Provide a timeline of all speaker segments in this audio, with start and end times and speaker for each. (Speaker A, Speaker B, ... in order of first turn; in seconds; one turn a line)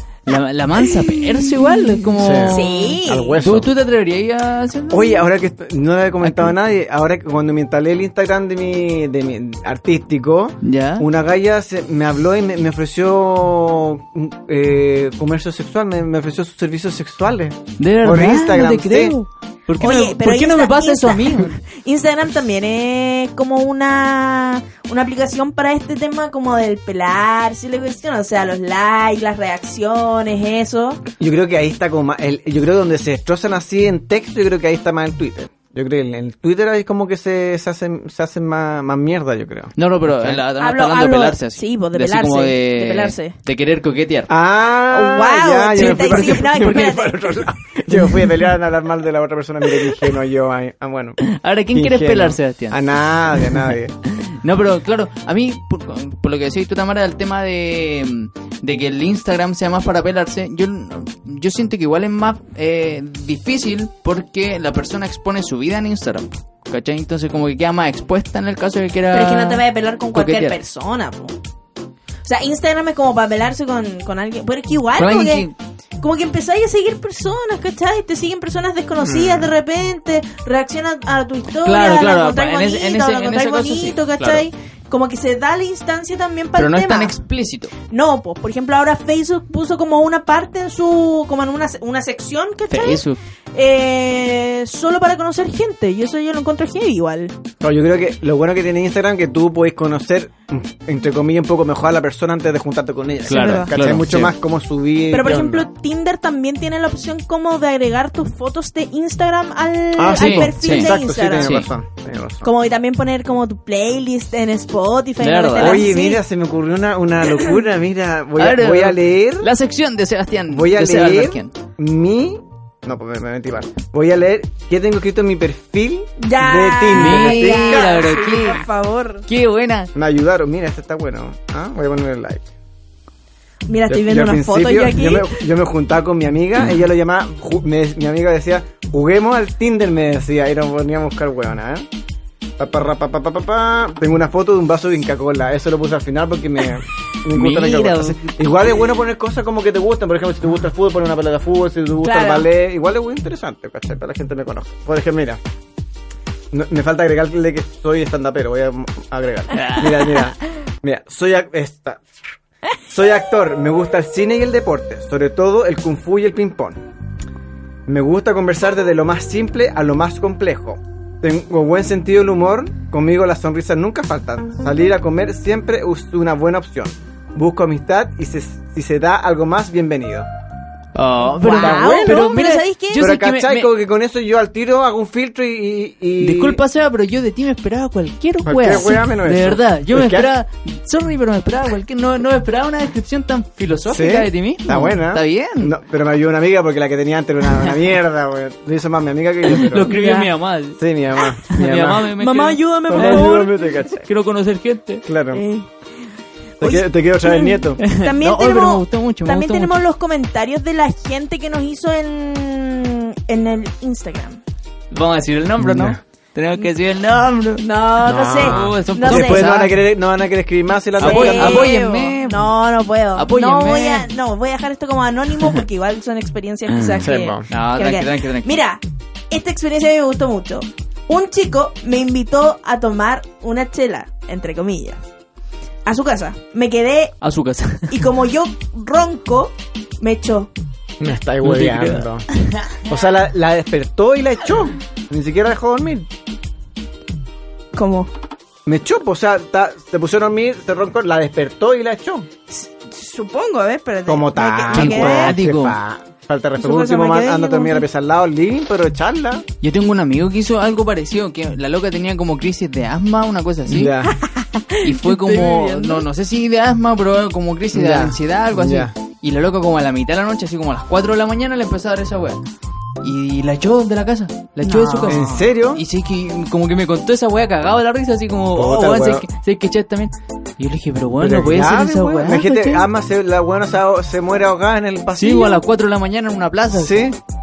Speaker A: 0.3-5.3
Speaker B: 0.8-3.4
Speaker C: 2.2-3.7
Speaker C: 4.9-19.2
Speaker A: 6.2-6.5
Speaker A: 10.6-11.1
Speaker A: 17.8-21.6
Speaker B: 19.8-31.0
Speaker C: 31.2-40.4
Speaker A: 39.8-44.3
Speaker B: 40.6-43.4
Speaker C: 44.3-51.2
Speaker B: 44.9-47.4
Speaker A: 45.8-47.0
Speaker A: 51.2-52.8
Speaker C: 51.7-54.0
Speaker A: 53.3-70.6
Speaker B: 69.1-71.4
Speaker B: 72.2-75.5
Speaker A: 75.0-75.6
Speaker B: 76.0-87.2
Speaker C: 79.0-79.5
Speaker A: 81.6-84.4
Speaker A: 86.5-87.7
Speaker B: 87.9-97.3
Speaker A: 92.7-93.2
Speaker C: 97.6-105.7
Speaker B: 103.3-103.7
Speaker A: 103.3-104.3
Speaker B: 105.1-111.5
Speaker C: 110.0-112.5
Speaker A: 110.1-111.7
Speaker B: 112.4-116.2
Speaker A: 115.2-115.8
Speaker C: 115.6-119.5
Speaker A: 118.4-121.5
Speaker C: 120.5-128.1
Speaker B: 126.2-129.3
Speaker A: 126.9-128.7
Speaker A: 129.3-129.9
Speaker C: 129.9-132.5
Speaker B: 133.7-135.4
Speaker C: 133.9-141.9
Speaker C: 142.6-155.4
Speaker A: 147.3-148.3
Speaker B: 152.0-152.5
Speaker C: 156.5-162.0
Speaker A: 159.5-160.3
Speaker C: 162.9-166.8
Speaker C: 167.9-180.3
Speaker A: 180.9-183.7
Speaker B: 181.3-183.1
Speaker C: 181.5-182.3
Speaker C: 183.0-186.6
Speaker A: 186.2-195.8
Speaker C: 188.4-190.3
Speaker C: 193.9-199.9
Speaker A: 199.5-200.8
Speaker B: 199.9-200.3
Speaker C: 200.8-202.1
Speaker A: 201.4-205.1
Speaker B: 202.2-203.7
Speaker C: 202.9-204.1
Speaker C: 205.1-205.4
Speaker B: 205.3-205.7
Speaker C: 206.6-207.8
Speaker B: 206.6-214.4
Speaker A: 207.8-209.8
Speaker A: 214.9-217.6
Speaker C: 215.6-216.0
Speaker B: 217.6-219.5
Speaker C: 218.0-221.8
Speaker A: 218.4-219.8
Speaker A: 221.0-222.5
Speaker B: 221.0-235.0
Speaker A: 223.2-224.1
Speaker C: 227.0-227.5
Speaker A: 227.5-228.5
Speaker B: 235.9-237.2
Speaker A: 237.2-238.1
Speaker B: 237.9-240.5
Speaker C: 241.0-242.3
Speaker A: 241.4-242.8
Speaker C: 242.8-246.1
Speaker B: 247.7-248.1
Speaker C: 248.7-252.3
Speaker B: 252.5-255.4
Speaker C: 254.1-259.5
Speaker A: 254.7-255.8
Speaker B: 256.6-257.9
Speaker A: 259.6-263.9
Speaker C: 263.7-264.2
Speaker B: 264.1-266.1
Speaker A: 264.8-272.4
Speaker C: 267.7-268.9
Speaker A: 273.0-282.9
Speaker B: 274.6-275.4
Speaker C: 275.1-275.8
Speaker C: 278.5-279.3
Speaker C: 281.2-285.6
Speaker A: 285.2-287.1
Speaker C: 286.7-287.2